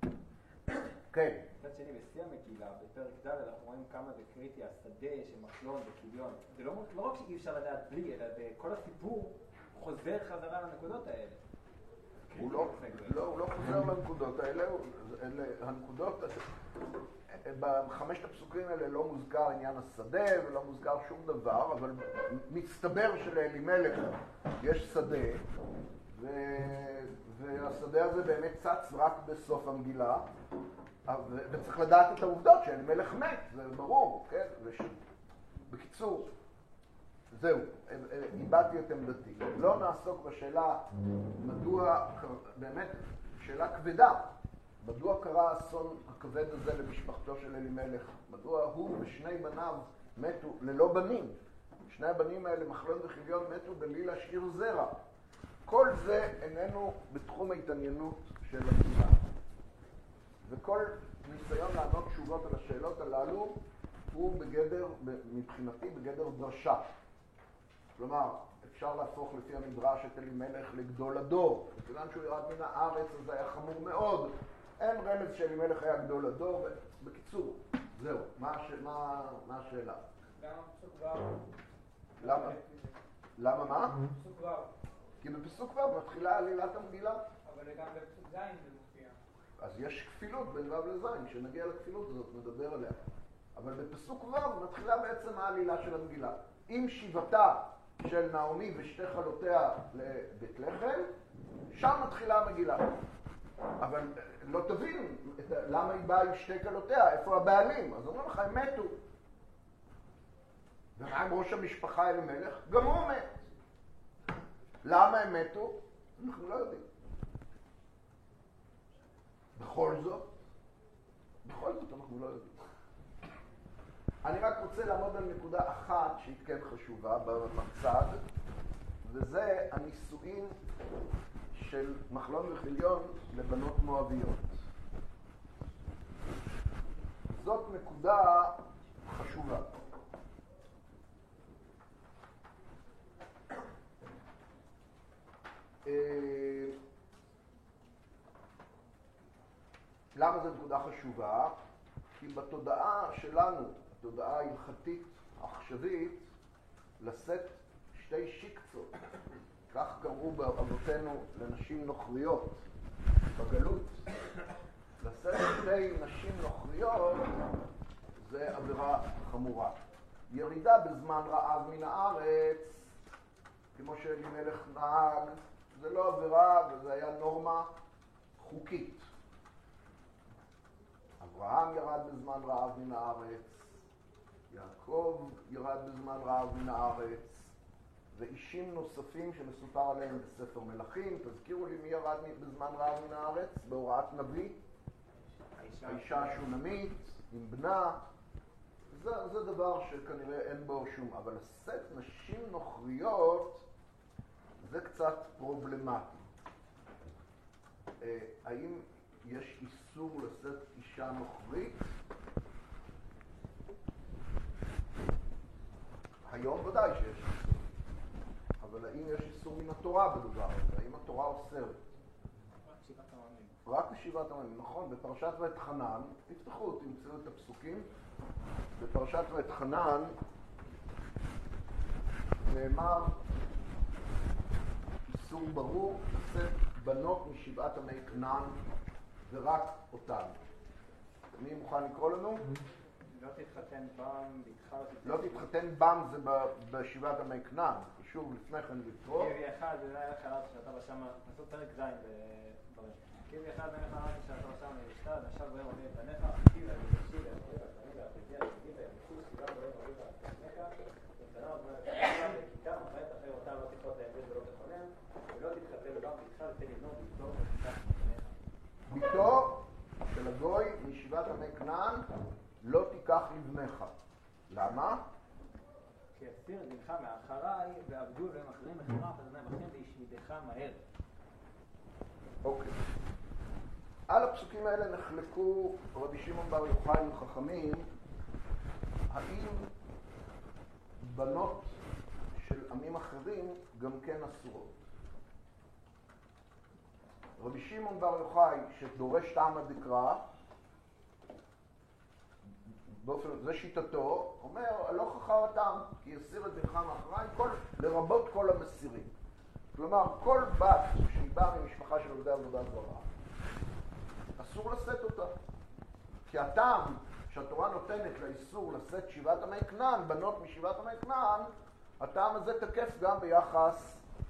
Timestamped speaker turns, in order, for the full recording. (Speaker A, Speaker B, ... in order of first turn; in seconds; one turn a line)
Speaker A: 1.1-1.5
Speaker B: 1.6-11.4
Speaker B: 12.3-13.2
Speaker A: 12.3-16.4
Speaker A: 17.3-25.4
Speaker A: 26.1-30.3
Speaker A: 31.1-35.0
Speaker A: 35.7-36.3
Speaker A: 37.3-40.8
Speaker A: 41.4-55.0
Speaker A: 55.6-59.2
Speaker A: 60.4-66.9
Speaker A: 68.0-80.0
Speaker C: 80.3-81.5
Speaker A: 82.2-82.6
Speaker C: 82.2-83.0
Speaker A: 83.4-84.0
Speaker C: 84.0-84.7
Speaker A: 85.2-87.2
Speaker C: 87.4-89.2
Speaker A: 89.6-93.0
Speaker A: 93.5-101.1
Speaker A: 101.7-103.0
Speaker A: 103.8-109.0
Speaker A: 111.0-113.4
Speaker A: 114.8-116.9
Speaker A: 119.5-120.3
Speaker A: 121.4-122.6
Speaker A: 124.2-128.2
Speaker A: 129.0-130.6
Speaker A: 131.5-134.6
Speaker A: 137.3-139.7
Speaker A: 145.8-146.7
Speaker A: 150.1-151.6
Speaker A: 152.2-156.3
Speaker A: 157.0-158.9
Speaker A: 159.7-162.6
Speaker A: 163.3-164.0
Speaker A: 165.0-167.4
Speaker A: 168.2-172.9
Speaker A: 173.7-177.7
Speaker A: 178.4-179.1
Speaker A: 181.2-183.8
Speaker A: 184.5-187.5
Speaker A: 188.1-194.6
Speaker B: 195.4-196.5
Speaker A: 195.8-198.0
Speaker A: 198.9-203.7
Speaker A: 204.6-206.3
Speaker A: 208.0-211.9
Speaker A: 216.2-217.6
Speaker A: 218.6-221.8
Speaker B: 222.6-223.6
Speaker A: 223.7-227.9
Speaker A: 228.8-230.2
Speaker A: 232.4-233.2
Speaker A: 235.1-238.6
Speaker A: 239.3-240.4
Speaker A: 241.3-242.5
Speaker B: 243.1-245.5
Speaker A: 245.0-249.3
Speaker B: 249.1-268.3
Speaker A: 268.9-272.1
Speaker A: 272.6-274.0
Speaker A: 274.5-275.0
Speaker B: 276.1-280.8
Speaker A: 282.4-282.8
Speaker A: 284.1-287.9
Speaker A: 289.1-289.7
Speaker A: 291.0-291.8
Speaker A: 292.3-294.8
Speaker A: 297.4-300.2
Speaker A: 302.4-309.1
Speaker A: 309.7-313.1
Speaker A: 314.4-315.3
Speaker A: 316.3-324.0